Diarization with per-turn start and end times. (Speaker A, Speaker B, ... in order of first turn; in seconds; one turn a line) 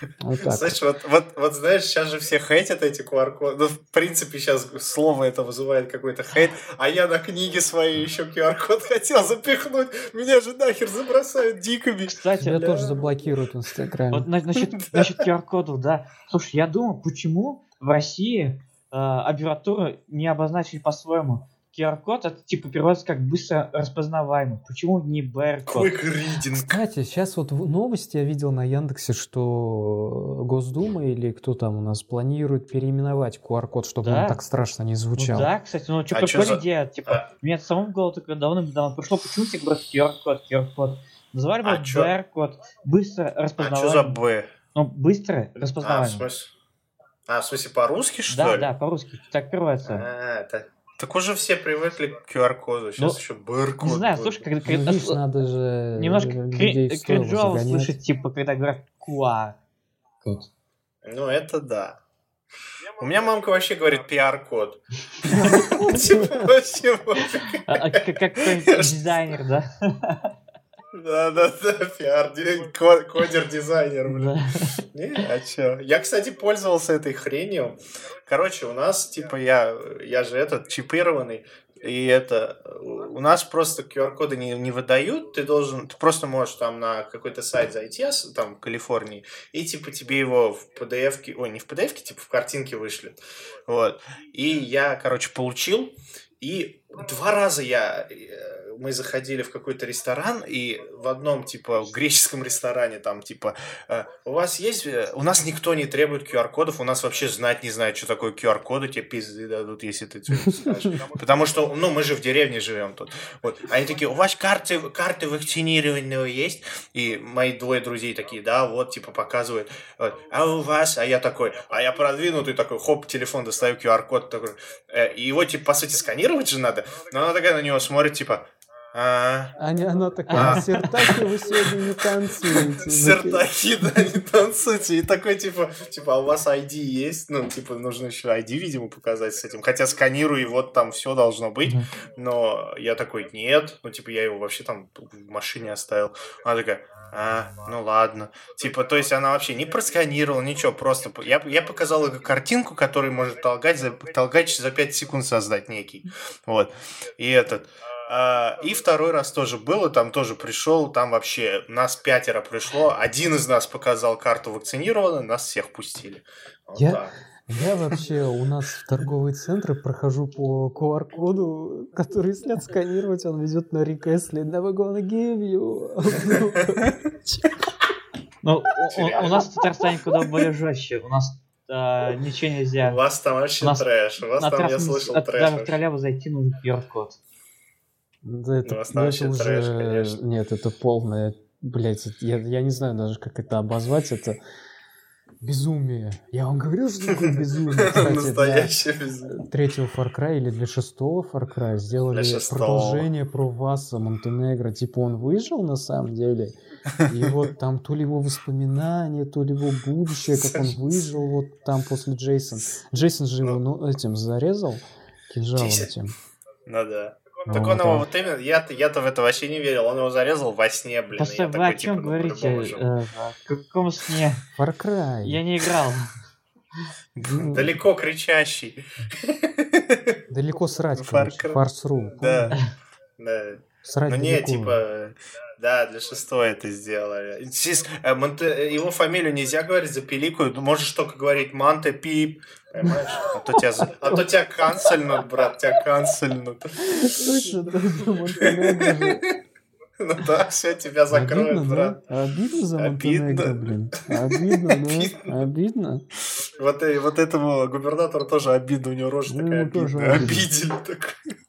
Speaker A: 0.2-0.8
Speaker B: 0.4-13.0
Speaker C: 12.1-12.8
Speaker A: 12.4-14.3
Speaker C: 14.1-25.9
Speaker B: 14.6-15.1
Speaker B: 25.7-26.8
Speaker A: 26.5-35.5
Speaker C: 34.0-34.4
Speaker C: 35.2-44.2
Speaker B: 36.1-37.2
Speaker B: 41.6-42.1
Speaker B: 43.6-44.5
Speaker C: 44.8-46.2
Speaker B: 45.6-46.5
Speaker B: 47.3-48.7
Speaker C: 48.3-50.0
Speaker B: 49.9-54.5
Speaker C: 53.8-55.2
Speaker A: 54.6-58.0
Speaker C: 56.0-59.6
Speaker C: 60.2-60.5
Speaker B: 61.0-62.0
Speaker B: 63.0-69.1
Speaker C: 65.3-65.7
Speaker A: 65.3-66.5
Speaker C: 67.7-70.3
Speaker B: 70.9-74.3
Speaker C: 74.1-74.8
Speaker B: 74.9-129.6
Speaker A: 110.4-111.0
Speaker A: 129.6-133.5
Speaker C: 130.3-130.9
Speaker B: 130.3-131.9
Speaker B: 132.4-167.2
Speaker A: 166.8-177.5
Speaker B: 176.6-176.9
Speaker C: 178.4-183.0
Speaker B: 178.9-179.6
Speaker B: 182.8-185.8
Speaker C: 184.4-187.2
Speaker A: 188.2-194.4
Speaker B: 188.6-190.2
Speaker A: 195.4-198.7
Speaker B: 197.2-199.4
Speaker A: 199.3-206.6
Speaker B: 202.1-203.1
Speaker A: 207.1-216.1
Speaker B: 210.3-210.7
Speaker B: 215.6-215.9
Speaker B: 216.7-222.8
Speaker A: 217.5-218.1
Speaker C: 221.1-224.4
Speaker A: 224.6-225.4
Speaker C: 225.2-226.1
Speaker B: 227.1-230.2
Speaker A: 227.2-227.8
Speaker A: 230.3-232.6
Speaker B: 230.9-231.6
Speaker B: 232.2-232.6
Speaker B: 233.2-247.7
Speaker A: 233.8-234.8
Speaker A: 246.8-249.3
Speaker B: 248.4-249.3
Speaker B: 250.0-252.0
Speaker A: 251.1-256.1
Speaker B: 252.8-255.4
Speaker B: 256.4-261.2
Speaker A: 259.3-260.5